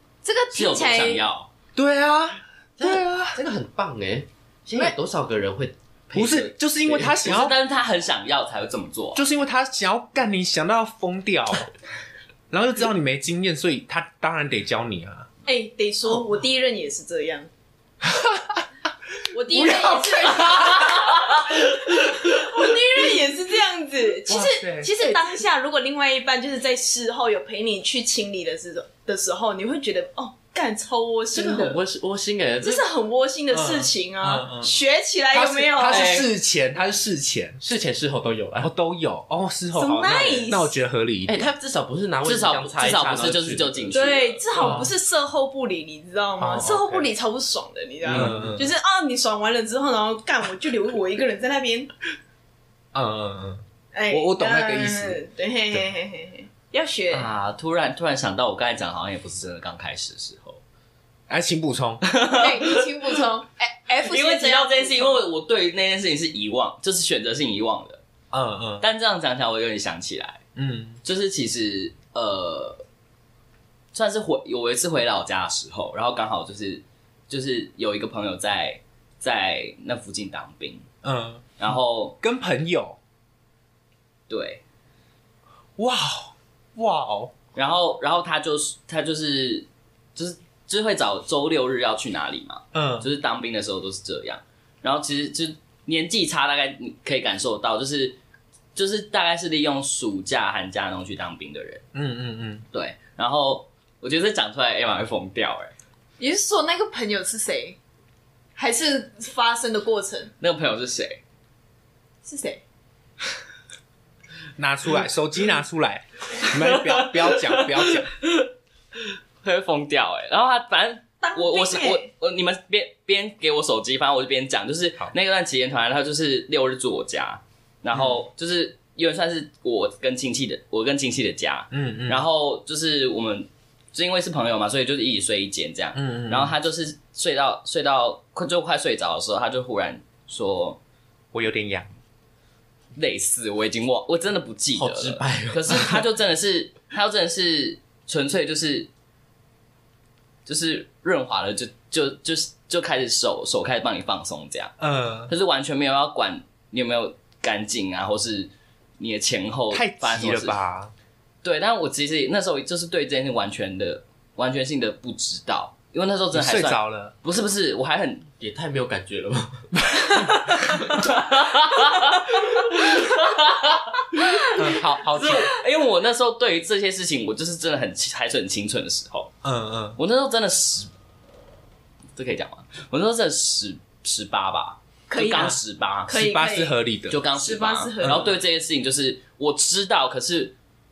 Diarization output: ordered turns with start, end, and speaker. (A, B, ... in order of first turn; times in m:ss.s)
0:00.2-0:01.2 A
0:00.5-0:01.5 B
0:01.8-0:03.4 C
0:02.8-0:07.3 D
0:06.1-0:07.6 C
0:07.0-0:09.2 B
0:09.1-0:11.7 C
0:12.5-0:15.3 C
0:15.4-0:17.5 A
0:18.0-0:18.6 C
0:19.3-0:21.2 A
0:19.4-0:21.4 C
0:21.9-0:31.8 A
0:24.3-0:25.4 C
0:31.3-0:32.8 D
0:32.6-0:36.2 A
0:33.5-0:34.7 C
0:35.3-0:37.6 C
0:35.9-0:36.3 B
0:37.6-0:38.7 D
0:38.6-0:41.5 C
0:39.7-0:40.7 A
0:41.2-0:44.0 D
0:42.2-0:44.4 B
0:43.2-0:43.6 C
0:43.9-0:51.9 A
0:44.6-0:44.9 C
0:44.6-0:44.8 D
0:46.4-0:47.1 C
0:48.1-0:48.5 D
0:48.1-0:48.7 C
0:52.9-0:55.2 C
0:53.9-0:57.3 A
0:57.1-1:00.6 B
1:01.3-1:02.0 C
1:02.0-1:02.9 B
1:02.3-1:05.2 A
1:04.0-1:08.0 B
1:08.3-1:08.9 C
1:08.8-1:10.4 B
1:10.6-1:11.0 C
1:11.0-1:12.8 B
1:13.9-1:20.8 B
1:21.0-1:23.0 C
1:21.6-1:22.1 B
1:24.3-1:24.6 B
1:25.8-1:27.3 C
1:27.5-1:38.2 B
1:32.7-1:33.1 C
1:38.7-1:41.8 B
1:41.9-1:42.6 C
1:42.7-1:45.7 B
1:46.2-1:47.8 A
1:48.6-1:50.3 A
1:50.4-1:51.2 B
1:52.2-1:52.6 A
1:54.6-1:58.1 C
1:56.4-1:58.5 B
1:59.4-2:20.8 B
2:01.2-2:02.1 A
2:11.7-2:12.2 C
2:15.9-2:16.5 C
2:21.3-2:21.9 C
2:23.0-2:28.9 B
2:24.8-2:26.0 D
2:30.4-2:34.7 B
2:34.8-2:35.3 C
2:35.3-2:40.6 B
2:39.7-2:40.9 C
2:41.4-2:48.3 B
2:46.3-2:47.1 C
2:48.4-2:49.7 D
2:49.8-2:50.8 C
2:50.9-2:59.3 B
2:54.5-2:55.5 C
2:59.4-3:00.0 C
3:00.0-3:00.9 B
3:02.2-3:06.2 B
3:05.1-3:06.7 A
3:06.1-3:07.2 C
3:07.1-3:10.5 B
3:07.4-3:08.3 A
3:08.0-3:08.3 C